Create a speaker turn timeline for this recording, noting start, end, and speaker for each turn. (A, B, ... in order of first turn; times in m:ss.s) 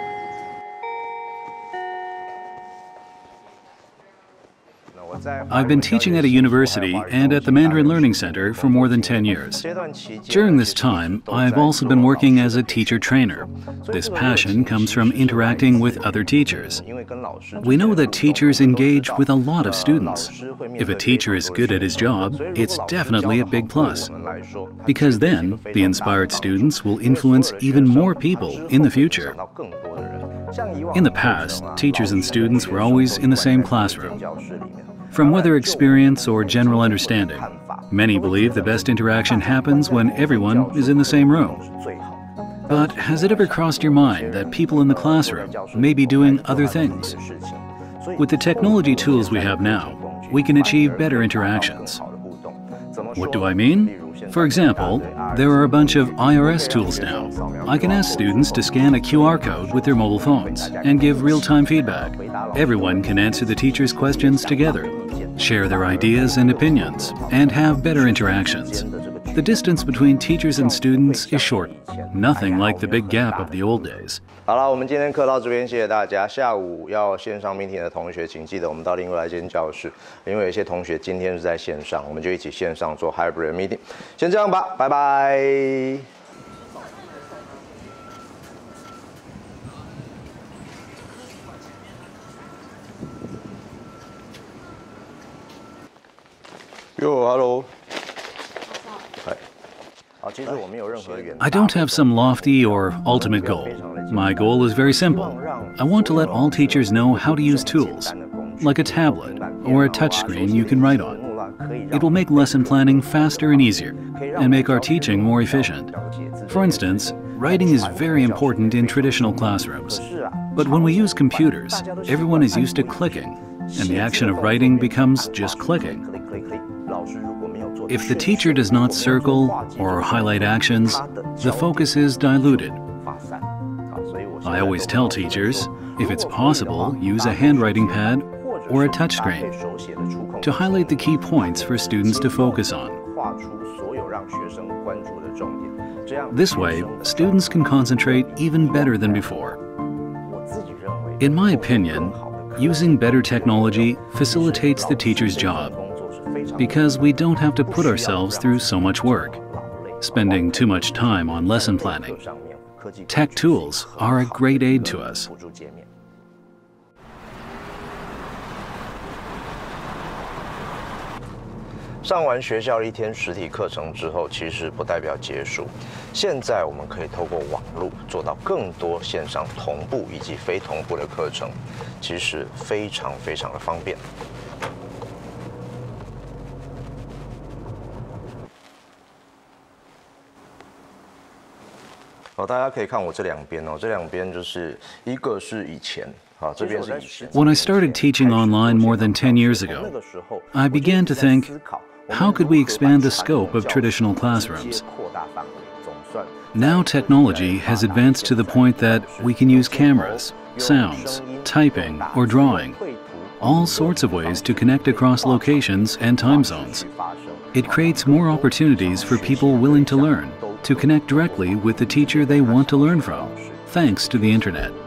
0:04.9-1:26.1 A
0:05.5-0:09.6 B
0:10.3-0:16.8 B
0:17.6-0:24.1 B
0:24.9-0:29.4 B
0:30.9-0:34.2 B
0:35.1-0:41.6 B
0:42.7-0:47.2 B
0:48.2-0:52.0 B
0:53.2-1:14.2 B
1:37.0-1:37.7 A
1:40.2-2:29.4 A
1:41.4-1:51.2 B
1:51.9-1:55.9 B
1:56.5-2:00.0 B
2:00.5-2:06.0 B
2:07.9-2:12.8 B
2:14.4-2:19.5 B
2:20.4-2:23.0 B
2:26.3-2:29.6 B
2:30.2-2:37.1 A
2:31.2-2:35.8 B
2:36.6-2:39.4 B
2:37.6-2:45.9 A
2:40.0-2:42.2 B
2:43.1-2:45.3 B
2:52.0-3:04.0 A
3:12.4-3:44.3 A
3:17.3-3:19.9 B
3:20.5-3:21.5 B
3:22.1-3:24.8 B
3:26.5-3:32.8 B
3:33.4-3:36.8 B
3:37.5-3:44.8 B